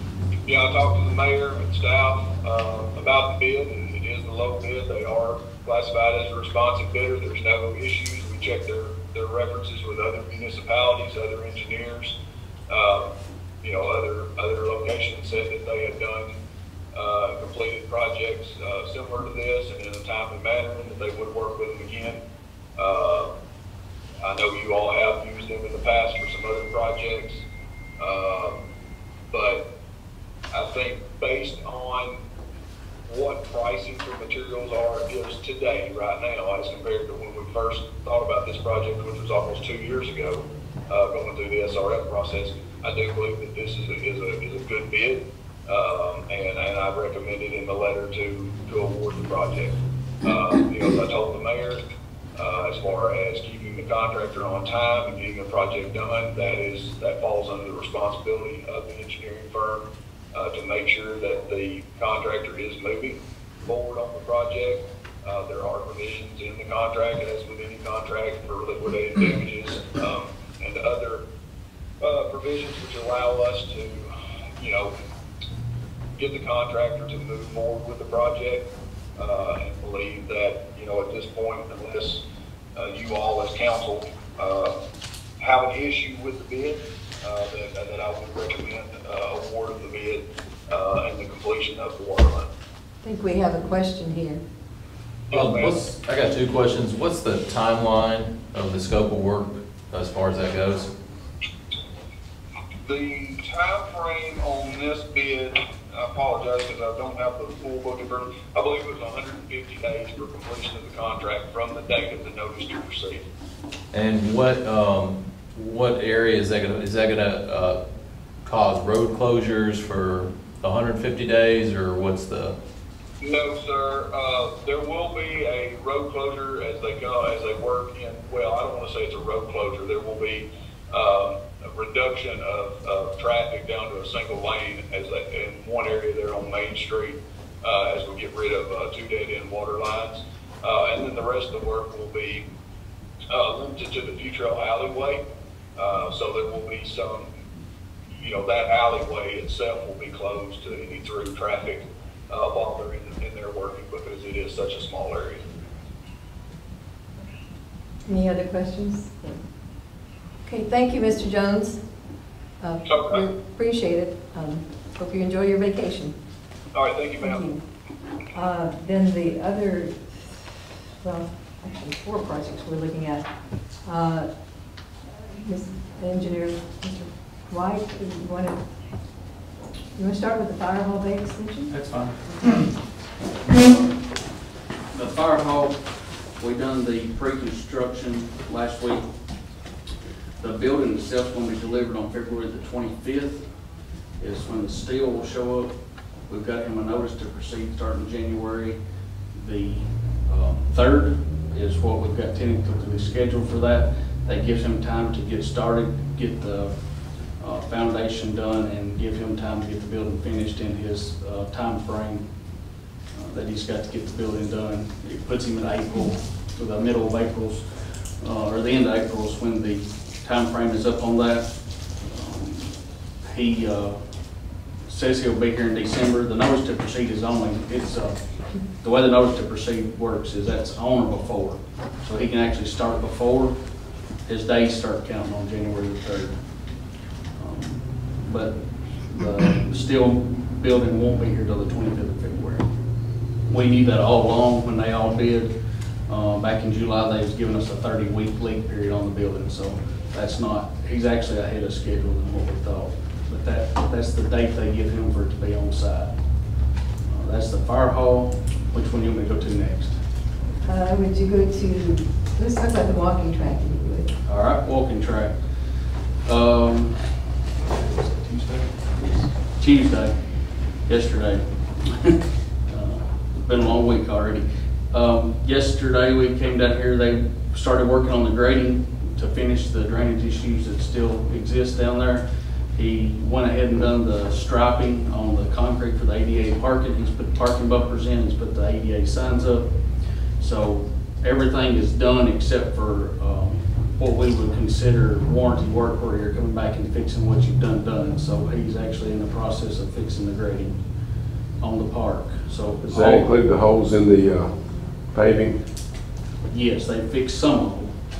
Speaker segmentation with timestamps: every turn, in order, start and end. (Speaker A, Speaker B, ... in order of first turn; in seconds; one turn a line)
Speaker A: 0.5-12.1
Speaker A: 12.7-16.4
Speaker A: 16.9-22.2
Speaker A: 22.8-23.3
Speaker A: 24.2-27.4
Speaker A: 28.0-28.6
Speaker A: 29.3-29.6
Speaker A: 30.5-32.2
Speaker A: 33.1-51.8
Speaker A: 52.4-71.2
Speaker A: 72.0-74.9
Speaker A: 76.2-78.6
Speaker A: 79.2-82.2
Speaker A: 82.7-84.8
Speaker A: 85.4-92.5
Speaker B: 93.0-94.4
Speaker A: 95.3-95.8
Speaker C: 95.3-100.9
Speaker A: 102.8-113.2
Speaker C: 113.9-117.8
Speaker C: 118.4-122.5
Speaker A: 123.2-142.4
Speaker A: 143.3-145.2
Speaker A: 145.8-147.3
Speaker A: 148.2-155.4
Speaker B: 158.1-159.4
Speaker B: 160.4-161.8
Speaker B: 162.6-166.1
Speaker A: 162.8-163.2
Speaker A: 166.7-167.4
Speaker B: 167.2-167.6
Speaker B: 168.3-170.5
Speaker B: 171.0-173.3
Speaker B: 173.8-174.3
Speaker B: 175.2-178.6
Speaker B: 179.9-181.8
Speaker D: 181.7-184.2
Speaker D: 184.9-189.1
Speaker D: 190.4-193.4
Speaker D: 194.2-195.7
Speaker D: 196.3-198.8
Speaker D: 199.3-212.5
Speaker D: 213.1-224.0
Speaker D: 224.8-242.7
Speaker D: 243.4-245.5
Speaker D: 246.1-260.0
Speaker B: 260.6-264.1
Speaker D: 264.2-300.8
Speaker D: 301.6-303.4
Speaker E: 302.9-304.5
Speaker E: 305.1-305.6
Speaker D: 306.5-307.9